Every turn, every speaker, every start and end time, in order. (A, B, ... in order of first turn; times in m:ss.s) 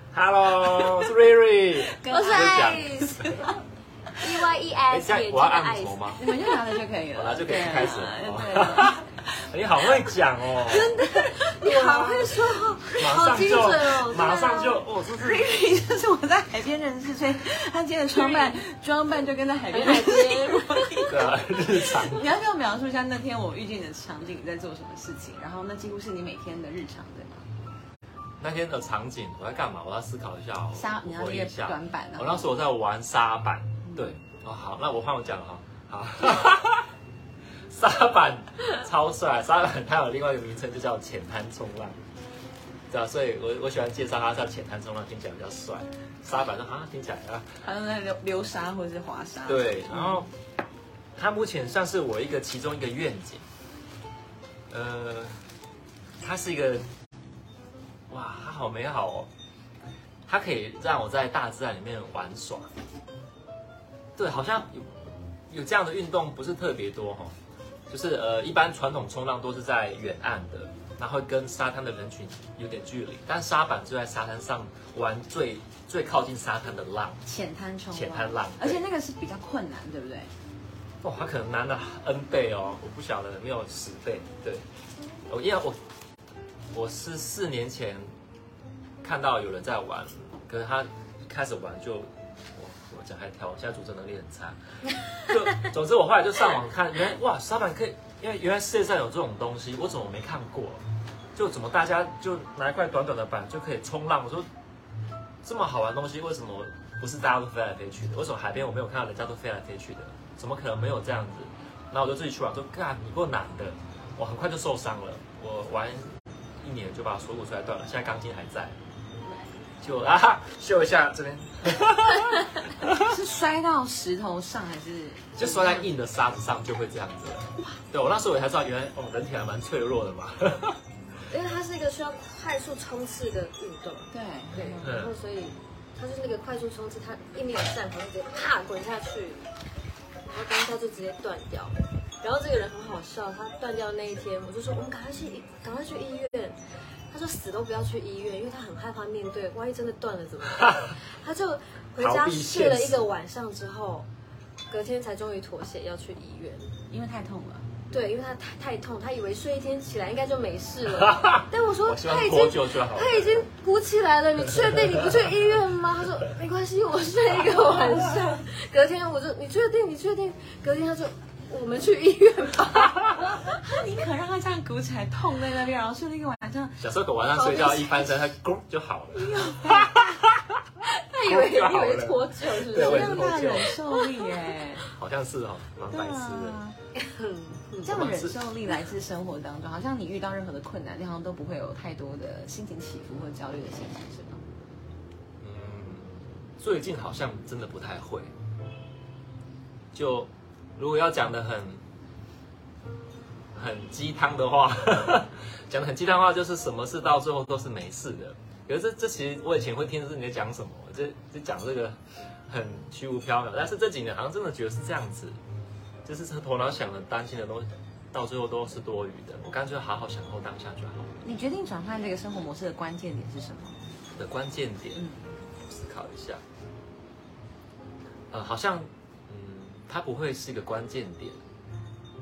0:00.1-0:03.3 A
0:00.6-0:01.0 B
0:01.8-0:03.3 B
0:02.1-0:03.5 C
0:04.1-0:06.2 C
0:04.9-0:06.2 A
0:06.2-0:10.1 B
0:07.1-0:09.0 A
0:09.5-0:10.9 A
0:10.7-0:14.8 C
0:11.0-0:12.6 B
0:11.8-0:12.1 A
0:13.0-0:15.4 A
0:15.0-0:21.1 B
0:18.1-0:18.6 C
0:19.7-0:21.2 C
0:21.1-0:22.2 A
0:21.7-0:27.5 B
0:28.4-0:36.9 A
0:30.7-0:32.4 B
0:33.8-0:34.1 B
0:37.7-0:42.0 A
0:42.9-0:47.6 A
0:47.6-0:50.2 B
0:49.4-0:50.3 A
0:51.2-0:53.4 A
0:54.7-0:55.4 A
0:56.2-0:56.9 A
0:58.1-0:59.3 A
1:00.3-1:02.7 A
1:04.2-1:07.4 A
1:07.9-1:17.2 A
1:17.2-1:20.3 B
1:17.9-1:18.8 A
1:21.0-1:24.7 A
1:25.3-1:25.8 A
1:26.7-1:28.2 A
1:29.0-1:40.8 A
1:41.3-1:44.5 A
1:45.4-1:58.8 A
1:59.8-2:03.1 A
2:02.9-2:05.9 B
2:05.4-2:10.8 A
2:11.3-2:19.5 C
2:14.1-2:14.9 B
2:14.8-2:15.1 A
2:20.3-2:26.6 C
2:27.1-2:34.1 C
2:32.0-2:33.1 A
2:34.7-2:36.7 C
2:36.9-2:37.7 B
2:37.9-2:53.2 C
2:40.9-2:43.5 A
2:44.5-2:45.1 A
2:53.3-2:56.8 B
2:56.8-3:00.6 A
2:57.4-2:58.2 C
2:59.1-3:00.1 B
3:00.9-3:03.8 C
3:01.2-3:03.8 A
3:02.7-3:04.9 B
3:04.9-3:06.6 A
3:05.9-3:06.8 B
3:07.0-3:07.9 C
3:07.8-3:14.4 B
3:07.8-3:08.4 A
3:15.4-3:18.3 A
3:19.9-3:21.8 A
3:23.5-3:35.4 A
3:36.0-3:41.2 A
3:41.2-3:43.8 B
3:44.1-3:45.0 A
3:44.9-3:45.3 B
3:45.6-3:46.4 A
3:48.3-3:51.4 A